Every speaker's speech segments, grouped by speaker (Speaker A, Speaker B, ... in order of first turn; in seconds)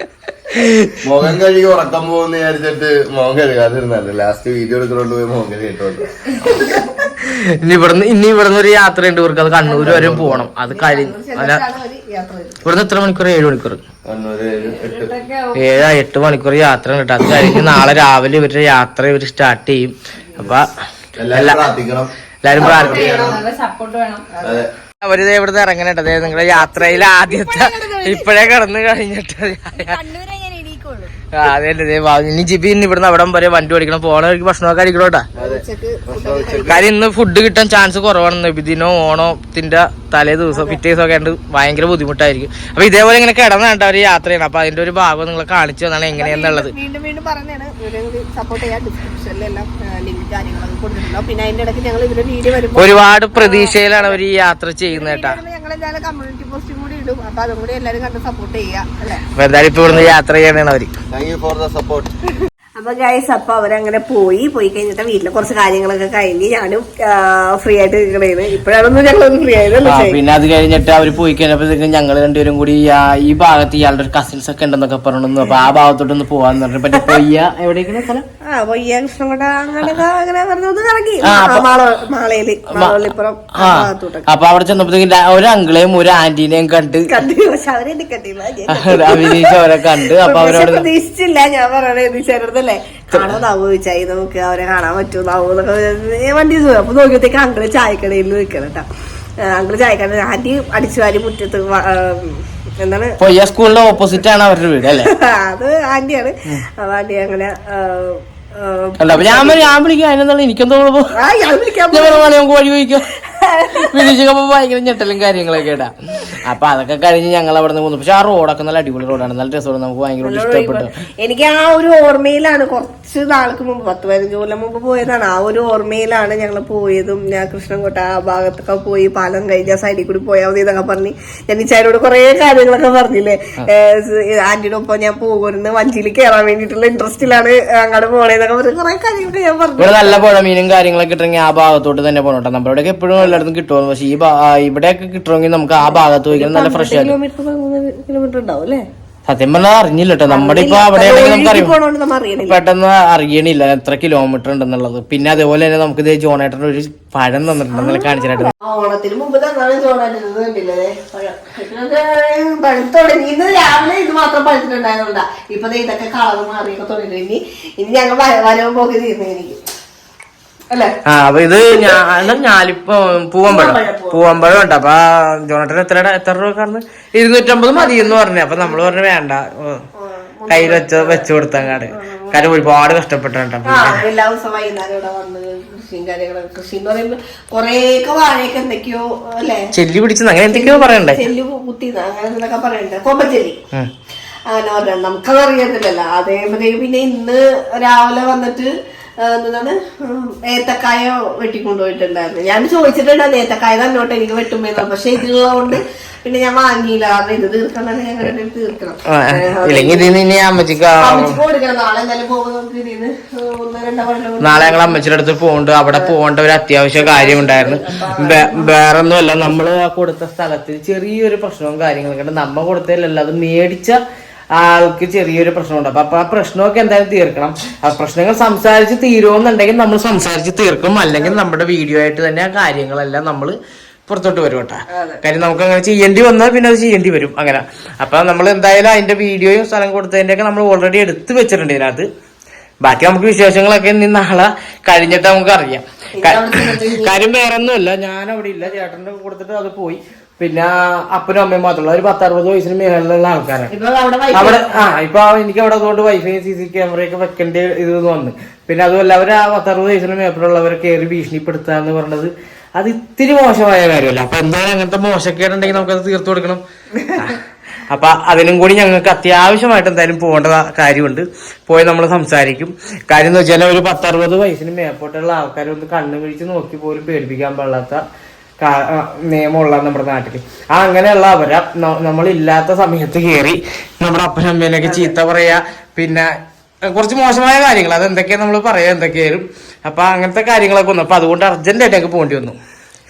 Speaker A: 0.5-1.0, 6.5-11.6, 12.6-13.8, 15.5-20.7, 21.3-21.7, 22.4-23.2, 25.0-30.0, 31.3-35.2, 36.7-46.7, 52.7-55.4, 59.4-60.9, 69.8-78.2, 81.2-81.7, 82.7-83.0, 83.5-87.1, 88.7-90.8, 93.1-93.4, 103.2-105.1, 109.0-111.1, 111.9-113.1, 113.8-120.9, 139.8-147.2, 149.2-151.7, 152.5-158.5, 171.1-179.8, 180.5-184.0, 189.7-191.2, 209.1-211.4, 214.4-224.0, 224.6-233.6, 234.1-242.1, 242.8-253.7, 254.3-266.6, 267.9-278.0, 278.6-286.3, 286.8-292.6
Speaker B: 1.0-6.0, 9.8-10.5, 14.1-15.1, 21.2-23.4, 24.4-24.7, 35.4-36.8, 59.9-60.1, 61.1-62.1
Speaker C: 9.7-10.0, 10.6-12.6, 22.5-23.4, 24.3-24.6, 26.2-28.5, 35.4-36.8, 40.5-40.8, 46.1-54.2, 54.9-59.2, 62.8-70.2, 75.4-75.7, 76.9-77.2, 78.5-84.3, 87.1-89.6, 90.2-98.8, 99.4-103.1, 105.0-109.8, 111.1-112.3, 113.2-114.1, 120.2-140.3, 143.2-143.4, 145.8-148.8, 150.3-152.6, 157.7-169.6, 171.7-172.0, 173.4-174.3, 177.7-179.0, 180.0-182.4, 183.6-189.7, 190.5-193.6, 194.5-210.1, 211.0-215.0, 215.9-216.2, 216.9-218.7, 234.9-235.2, 246.2-247.2, 253.7-254.8, 267.0-267.2, 284.8-285.1
Speaker D: 14.6-15.7, 22.6-24.3, 29.7-31.1